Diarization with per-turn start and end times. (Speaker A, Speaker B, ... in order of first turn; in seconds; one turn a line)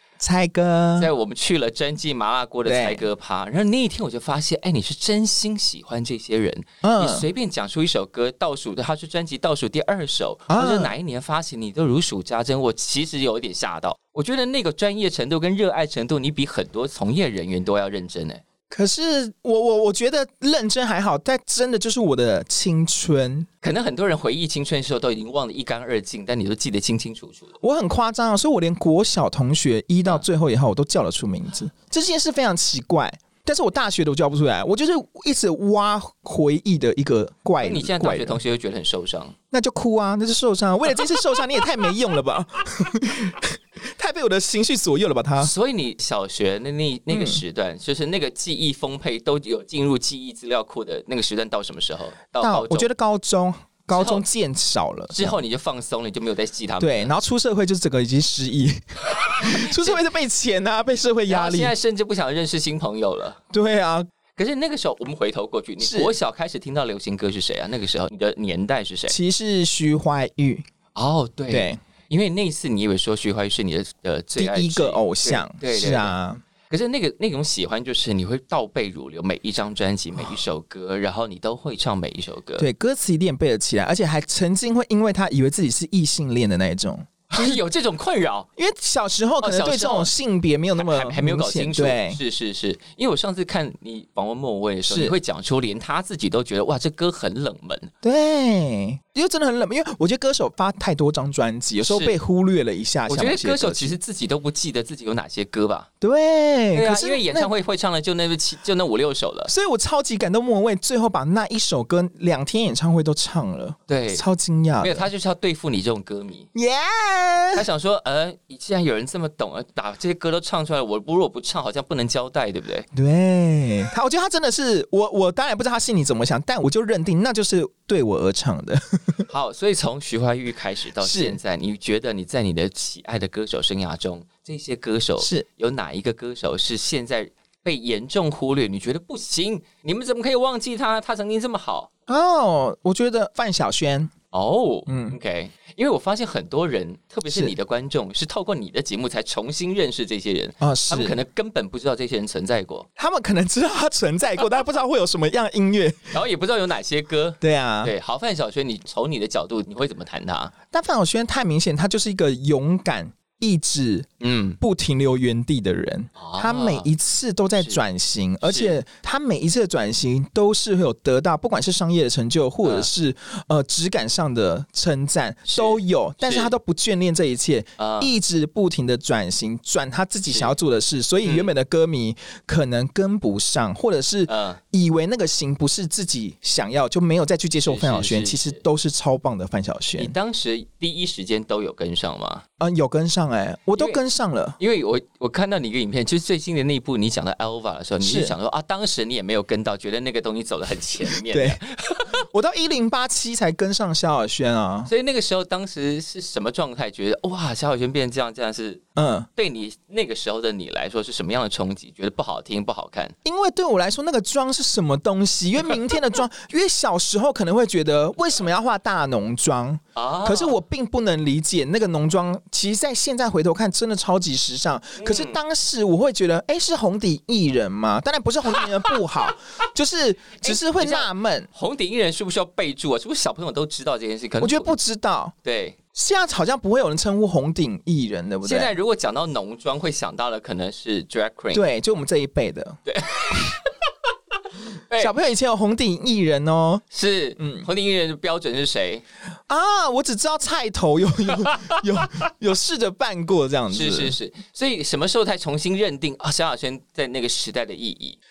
Speaker A: 0.2-1.1
Speaker B: 1.0-18.4
Speaker A: 2.6-3.0
Speaker A: 6.8-7.2
Speaker A: 10.5-10.9
Speaker A: 18.7-23.5
Speaker B: 23.6-27.5
Speaker A: 27.6-38.4
Speaker B: 37.6-39.3
Speaker A: 39.5-45.5
Speaker B: 45.4-52.9
Speaker A: 47.1-47.4
Speaker A: 52.4-55.4
Speaker B: 53.9-54.2
Speaker B: 55.1-57.1
Speaker A: 56.8-61.7
Speaker B: 59.2-60.0
Speaker B: 61.3-63.4
Speaker A: 63.5-64.1
Speaker B: 64.3-69.2
Speaker A: 65.8-66.1
Speaker A: 69.1-70.6
Speaker B: 70.9-76.1
Speaker A: 71.5-71.8
Speaker A: 74.4-76.4
Speaker B: 76.7-82.7
Speaker A: 82.6-87.6
Speaker B: 87.3-88.5
Speaker A: 88.6-92.2
Speaker B: 89.4-90.1
Speaker B: 90.8-97.9
Speaker A: 94.9-95.1
Speaker A: 98.0-104.0
Speaker B: 101.8-102.2
Speaker B: 103.1-105.9
Speaker A: 106.0-107.5
Speaker B: 106.7-109.5
Speaker A: 109.5-115.1
Speaker B: 113.9-114.2
Speaker B: 114.8-116.5
Speaker A: 116.5-117.6
Speaker B: 117.5-122.9
Speaker A: 122.9-129.2
Speaker B: 129.3-141.9
Speaker A: 131.0-131.4
Speaker A: 135.2-135.4
Speaker A: 142.1-144.1
Speaker B: 144.3-152.9
Speaker A: 144.9-145.2
Speaker A: 147.3-147.5
Speaker A: 150.6-151.2
Speaker A: 153.0-156.1
Speaker B: 156.1-160.5
Speaker A: 157.4-157.9
Speaker A: 160.7-164.1
Speaker B: 164.2-164.6
Speaker A: 164.6-190.1
Speaker B: 166.2-166.9
Speaker B: 168.4-168.8
Speaker B: 172.6-172.9
Speaker B: 175.5-176.5
Speaker B: 177.8-178.1
Speaker B: 180.3-180.5
Speaker B: 181.2-181.5
Speaker B: 184.3-184.6
Speaker B: 187.6-188.6
Speaker B: 190.0-192.4
Speaker A: 192.6-194.6
Speaker B: 194.6-202.2
Speaker A: 198.0-198.3
Speaker A: 201.2-201.6
Speaker A: 202.3-204.9
Speaker B: 204.8-208.8
Speaker A: 208.9-209.3
Speaker B: 209.3-213.1
Speaker A: 213.2-231.5
Speaker B: 219.9-220.6
Speaker B: 225.0-225.4
Speaker B: 230.4-234.7
Speaker A: 234.4-235.3
Speaker B: 235.4-235.8
Speaker A: 235.9-238.7
Speaker B: 238.4-241.6
Speaker A: 241.5-242.8
Speaker B: 242.8-243.7
Speaker A: 245.0-246.8
Speaker B: 246.9-249.0
Speaker A: 247.4-247.7
Speaker A: 249.5-254.1
Speaker B: 251.4-251.8
Speaker B: 253.7-258.2